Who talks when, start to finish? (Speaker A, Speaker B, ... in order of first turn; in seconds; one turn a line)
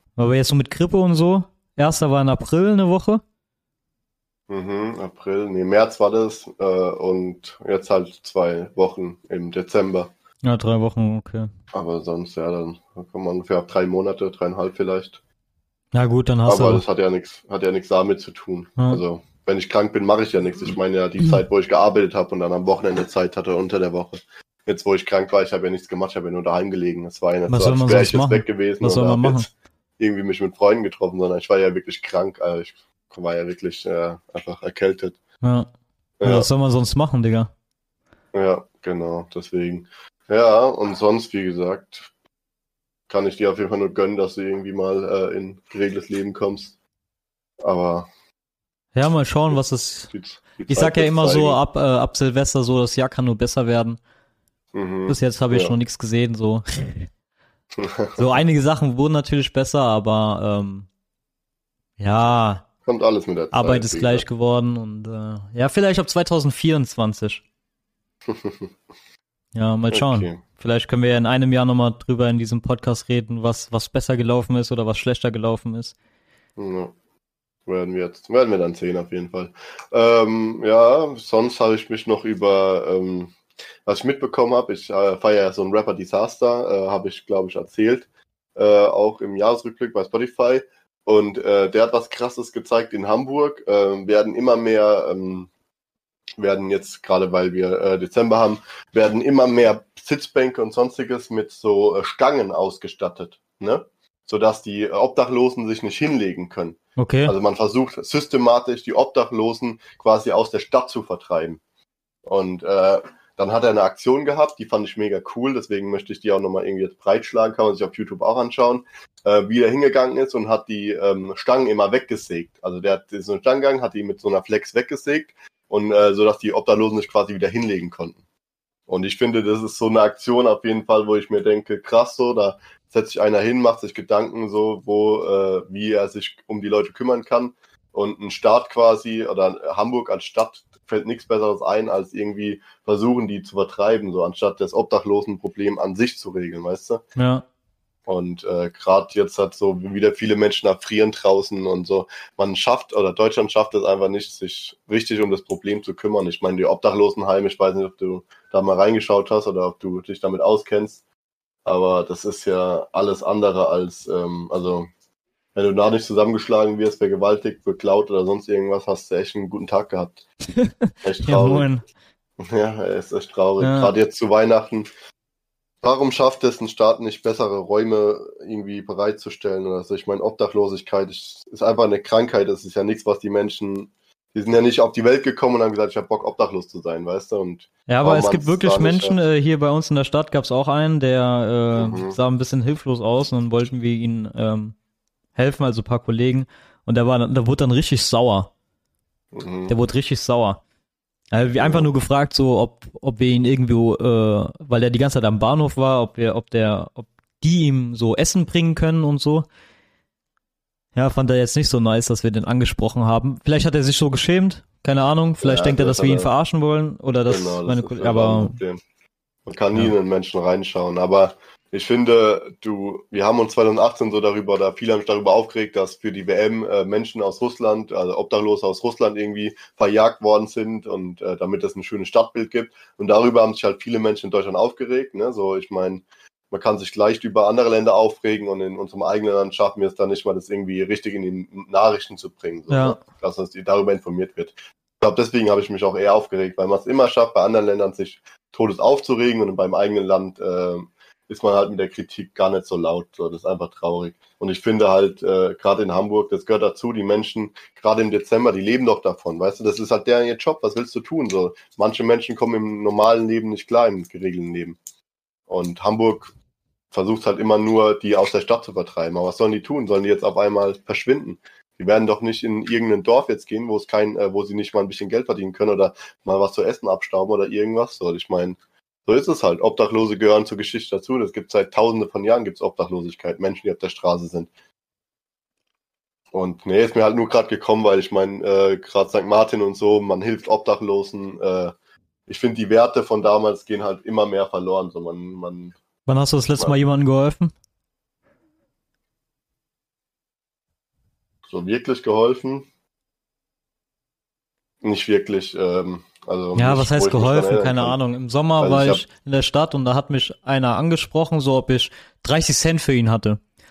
Speaker A: 0.2-3.2
Speaker B: 4.5-10.1
Speaker A: 10.4-11.5
Speaker B: 11.7-15.2
Speaker A: 15.9-16.8
Speaker B: 16.5-35.2
Speaker A: 27.5-29.5
Speaker A: 35.4-35.7
Speaker B: 36.2-36.5
Speaker A: 36.2-37.5
Speaker B: 38.3-42.1
Speaker B: 43.1-46.7
Speaker B: 47.6-48.1
Speaker A: 48.9-50.1
Speaker B: 50.1-51.6
Speaker A: 50.7-54.0
Speaker B: 54.7-55.8
Speaker A: 55.1-57.1
Speaker B: 57.8-58.2
Speaker A: 58.2-60.9
Speaker A: 62.0-62.6
Speaker B: 62.9-64.2
Speaker A: 63.5-67.4
Speaker B: 68.3-68.7
Speaker A: 69.5-76.0
Speaker B: 69.9-70.4
Speaker B: 76.6-76.9
Speaker B: 77.7-95.5
Speaker B: 96.4-111.6
Speaker A: 107.0-107.3
Speaker B: 112.2-128.2
Speaker B: 128.9-147.0
Speaker A: 147.2-147.4
Speaker B: 148.1-161.0
Speaker B: 161.6-164.9
Speaker B: 165.5-170.2
Speaker A: 170.6-171.8
Speaker B: 171.0-171.7
Speaker B: 172.4-174.9
Speaker A: 173.6-173.9
Speaker B: 175.8-189.2
Speaker A: 187.9-194.8
Speaker B: 191.7-192.2
Speaker A: 195.3-198.5
Speaker B: 199.3-199.7
Speaker A: 199.7-200.6
Speaker A: 201.3-209.4
Speaker B: 201.6-201.9
Speaker A: 210.9-218.6
Speaker B: 215.4-216.3
Speaker B: 217.3-218.8
Speaker B: 219.4-264.8
Speaker A: 242.7-243.0
Speaker B: 265.5-266.3
Speaker B: 266.9-284.5
Speaker B: 286.3-291.7
Speaker B: 292.3-295.7
Speaker A: 296.1-297.5
Speaker B: 301.5-302.6
Speaker B: 304.8-308.0
Speaker A: 306.6-313.4
Speaker B: 308.6-309.0